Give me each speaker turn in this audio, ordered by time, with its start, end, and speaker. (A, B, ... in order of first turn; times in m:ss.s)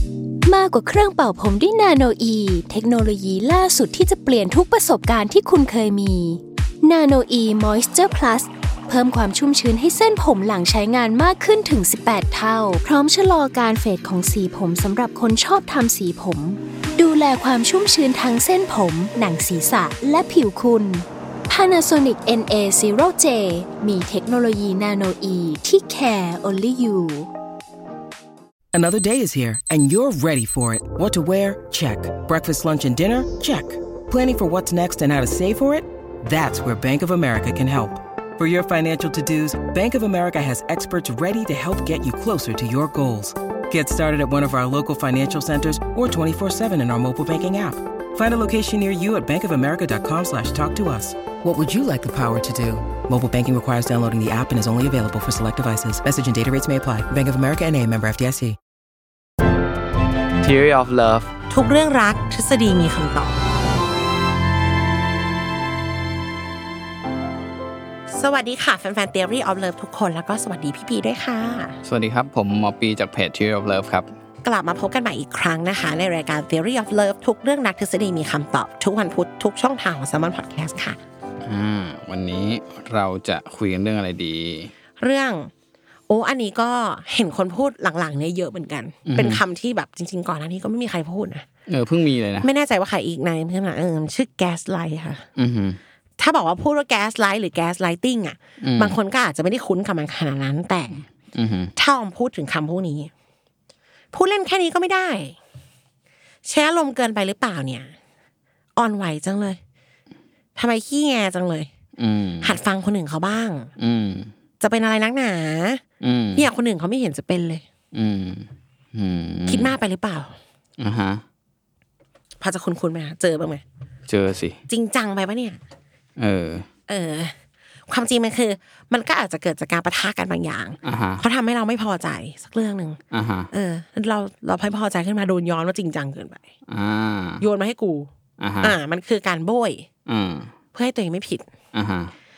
0:00.5-0:27.3 A
0:28.7-0:58.6 B
1:00.4-1:01.3 C
1:01.5-1:03.4 D
1:08.1-1:11.8 D
1:11.8-1:14.1 C
1:14.4-1:21.0 D
1:21.4-1:24.7 C
1:25.0-1:25.5 D
1:26.1-1:31.4 D
1:29.1-1:29.4 C
1:31.7-1:32.5 C
1:32.4-1:35.2 D
1:35.4-1:35.8 C
1:36.2-1:41.1 D
1:38.6-1:39.0 C
1:41.3-1:41.7 C
1:41.8-1:43.1 D
1:44.1-1:45.4 D
1:46.4-1:47.9 D
1:48.8-1:49.6 D
1:50.6-1:51.7 D
1:52.0-1:52.6 C
1:52.4-1:53.7 D
1:53.8-1:54.3 C
1:54.6-1:55.8 D
1:56.0-1:56.5 C
1:56.3-1:57.6 D
1:57.9-1:59.7 C
1:59.5-2:00.4 D
2:00.8-2:01.2 C
2:02.4-2:03.6 D
2:04.1-2:04.6 C
2:04.7-2:05.6 D
2:06.2-2:06.7 C
2:06.9-2:07.3 D
2:07.9-2:13.0 D
2:10.8-2:11.2 C
2:13.1-2:13.5 C
2:13.5-2:16.4 D
2:16.7-2:17.4 C
2:17.4-2:18.1 D
2:18.4-2:18.8 C
2:18.6-2:19.9 D
2:20.1-2:20.5 C
2:20.7-2:21.5 D
2:21.7-2:22.1 C